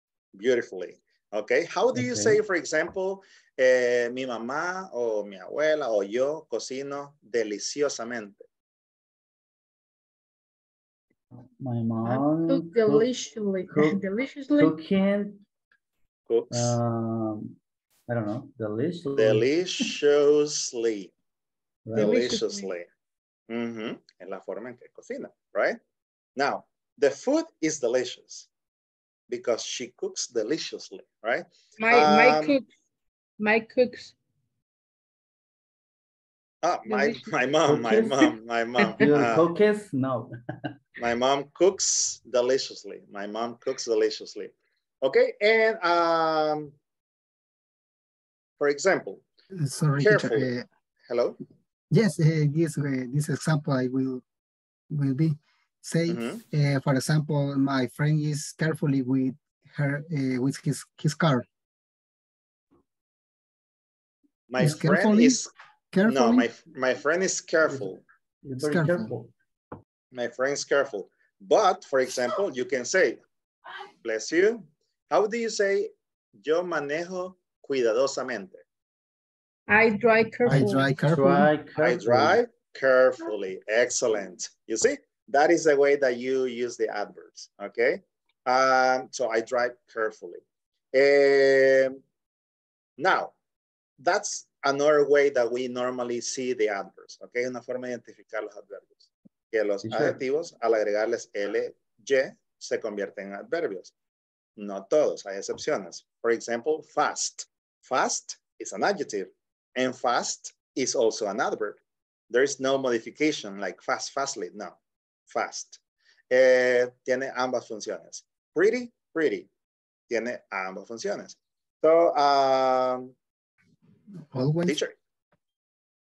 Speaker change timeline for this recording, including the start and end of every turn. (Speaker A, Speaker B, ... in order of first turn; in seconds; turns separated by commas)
Speaker A: 0.3-8.4, Speaker B: 1.9-2.4, Speaker B: 11.6-13.1, Speaker C: 12.0-14.7, Speaker B: 13.7-14.0, Speaker B: 14.6-15.4, Speaker A: 16.3-16.8, Speaker B: 16.5-17.6, Speaker B: 18.1-19.5, Speaker A: 19.1-21.1, Speaker B: 21.9-22.2, Speaker A: 21.9-22.9, Speaker C: 21.9-22.7, Speaker A: 23.5-25.8, Speaker A: 26.4-28.5, Speaker A: 29.3-32.6, Speaker C: 31.8-32.6, Speaker C: 33.4-34.1, Speaker A: 36.6-39.5, Speaker C: 36.9-37.3, Speaker B: 37.6-38.3, Speaker B: 39.0-40.3, Speaker A: 41.0-46.7, Speaker A: 48.6-49.2, Speaker D: 49.5-50.6, Speaker A: 50.0-50.5, Speaker A: 51.1-51.4, Speaker D: 51.9-54.2, Speaker D: 54.9-61.4, Speaker A: 56.1-56.4, Speaker A: 64.5-65.5, Speaker D: 64.6-66.5, Speaker A: 66.0-68.0, Speaker B: 68.4-69.3, Speaker D: 68.6-69.1, Speaker A: 70.1-73.2, Speaker A: 74.0-75.9, Speaker A: 76.4-78.6, Speaker C: 79.7-80.9, Speaker B: 80.5-82.4, Speaker D: 80.5-81.5, Speaker A: 81.8-90.4, Speaker A: 90.9-92.0, Speaker A: 93.0-93.3, Speaker A: 94.0-103.9, Speaker B: 99.8-100.2, Speaker A: 104.6-111.8, Speaker A: 112.3-114.8, Speaker A: 115.3-115.8, Speaker A: 116.3-119.5, Speaker A: 120.1-123.1, Speaker D: 124.3-124.8, Speaker A: 124.7-124.9